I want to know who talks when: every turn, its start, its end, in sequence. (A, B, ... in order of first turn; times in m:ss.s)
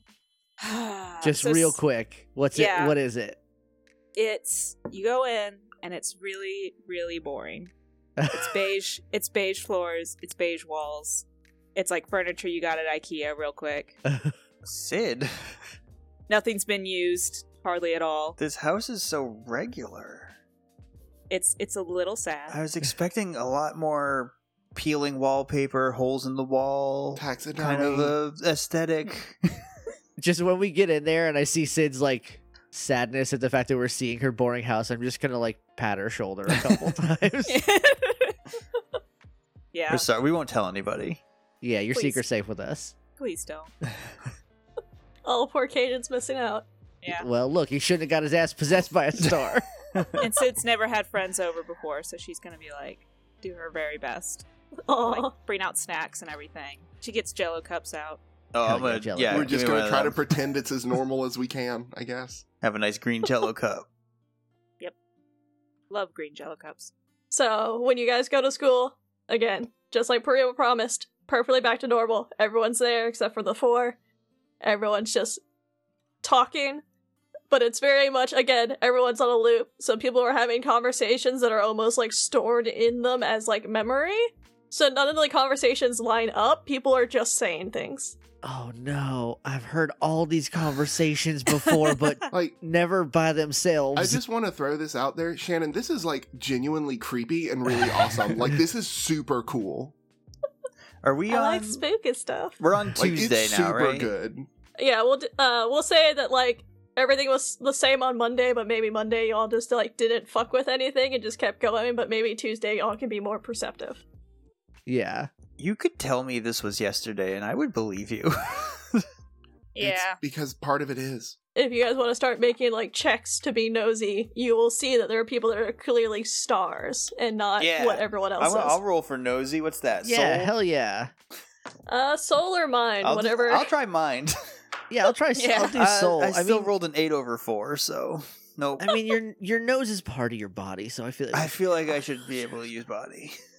0:00.6-0:01.8 A
0:01.2-0:03.4 B
0:02.5-0:03.0 A
0:04.2-0:07.7 A
0:08.2-0:08.6 B
0:08.3-0:14.0 A
0:14.1-0:14.3 B
0:14.6-0:15.3 C
0:16.3-0:18.4 A
0:18.4-0:20.3 C
0:21.3-0:22.6 A
0:22.5-0:29.5 C
0:27.2-0:28.2 D
0:30.2-0:37.6 B
0:37.5-0:38.4 A
0:39.7-0:40.1 A
0:39.9-0:41.2 C
0:41.6-0:43.0 B
0:43.2-0:43.7 A
0:45.2-0:46.7 E
0:47.0-0:47.3 A
0:47.1-0:49.7 B
0:50.0-0:50.2 C
0:50.2-0:54.4 A
0:54.9-0:55.3 E
0:55.0-0:58.2 A
0:58.5-1:00.3 C
0:58.6-0:59.6 B
0:59.3-1:02.4 D
1:02.6-1:03.9 C
1:05.9-1:06.9 A
1:07.3-1:14.0 E
1:14.6-1:15.4 E
1:16.2-1:16.8 E
1:17.5-1:28.2 E
1:28.4-1:34.2 B
1:34.0-1:40.0 D
1:41.0-1:41.8 C
1:41.3-1:42.6 E
1:42.6-1:44.1 C
1:43.0-1:44.5 D
1:44.8-1:54.0 E
1:54.9-1:55.3 B
1:55.6-1:59.0 C
1:59.8-2:00.2 A
1:59.8-2:01.4 D
2:01.6-2:08.8 E
2:07.6-2:10.5 C
2:10.0-2:11.1 B
2:11.9-2:13.7 E
2:13.0-2:14.4 C
2:14.9-2:16.7 B
2:15.4-2:15.8 A
2:15.7-2:19.0 C
2:18.8-2:21.6 B
2:21.3-2:23.4 C